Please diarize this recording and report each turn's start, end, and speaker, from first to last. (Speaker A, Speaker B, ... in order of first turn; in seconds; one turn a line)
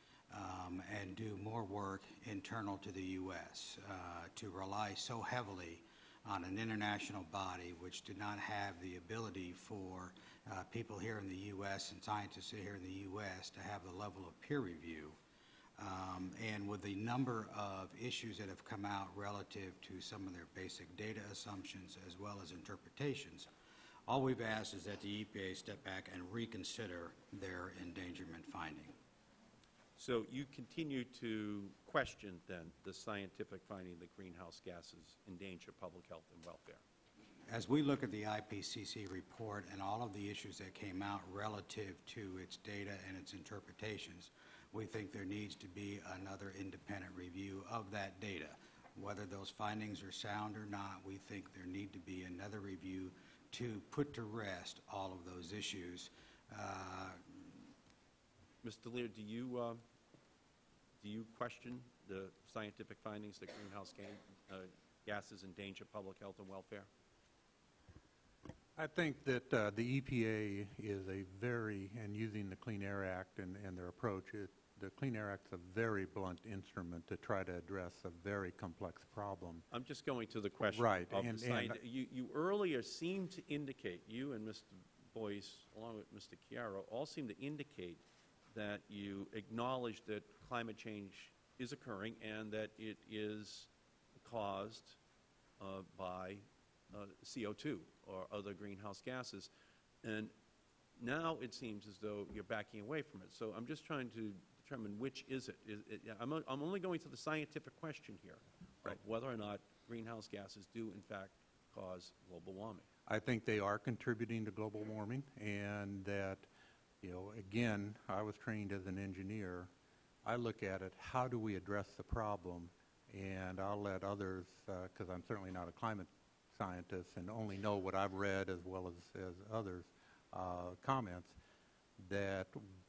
Speaker A: 0.3-15.2
Speaker A: 15.8-23.5
Speaker A: 24.1-28.9
Speaker B: 30.0-36.8
Speaker A: 37.5-57.5
Speaker B: 58.6-59.8
Speaker B: 61.0-66.9
Speaker C: 68.8-79.6
Speaker B: 79.7-93.7
Speaker C: 80.7-81.8
Speaker B: 94.2-95.0
Speaker B: 95.6-99.5
Speaker B: 100.0-100.3
Speaker B: 101.0-112.8
Speaker C: 113.1-116.5
Speaker C: 117.0-119.7
Speaker C: 120.2-131.4
Speaker C: 132.0-132.6